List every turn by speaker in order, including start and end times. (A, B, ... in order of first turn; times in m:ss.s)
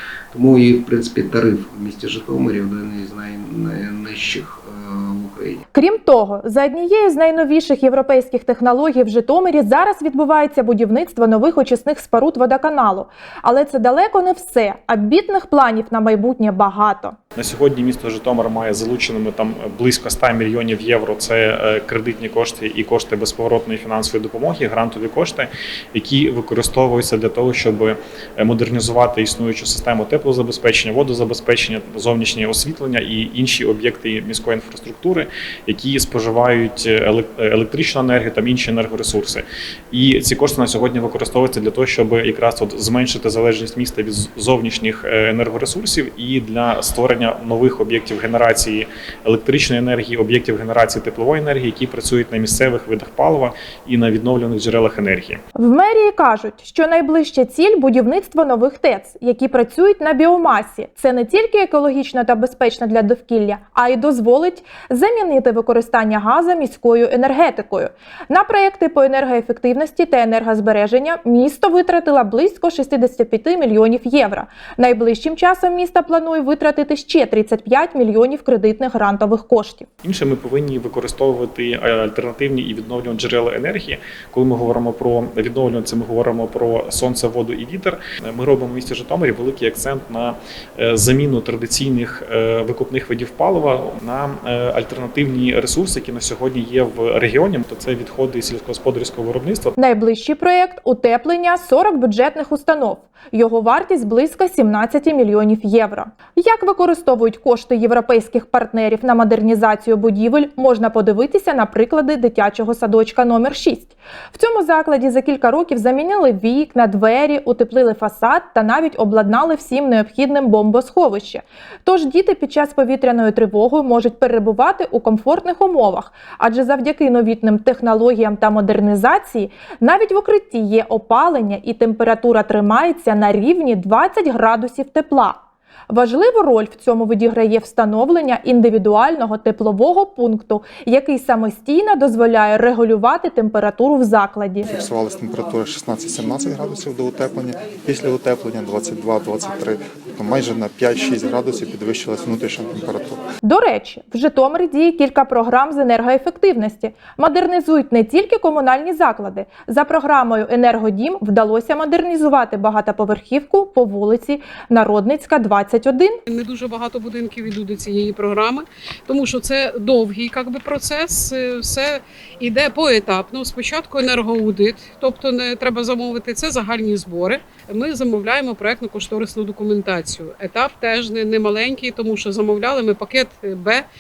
0:00.3-0:05.6 A
0:05.7-0:17.2 B
0:17.4-0:55.4 C
0:55.6-1:19.9 B
1:20.0-1:39.7 C
1:39.8-2:24.7 B
2:24.7-2:33.2 D
2:33.4-2:46.2 B
2:46.3-3:03.8 E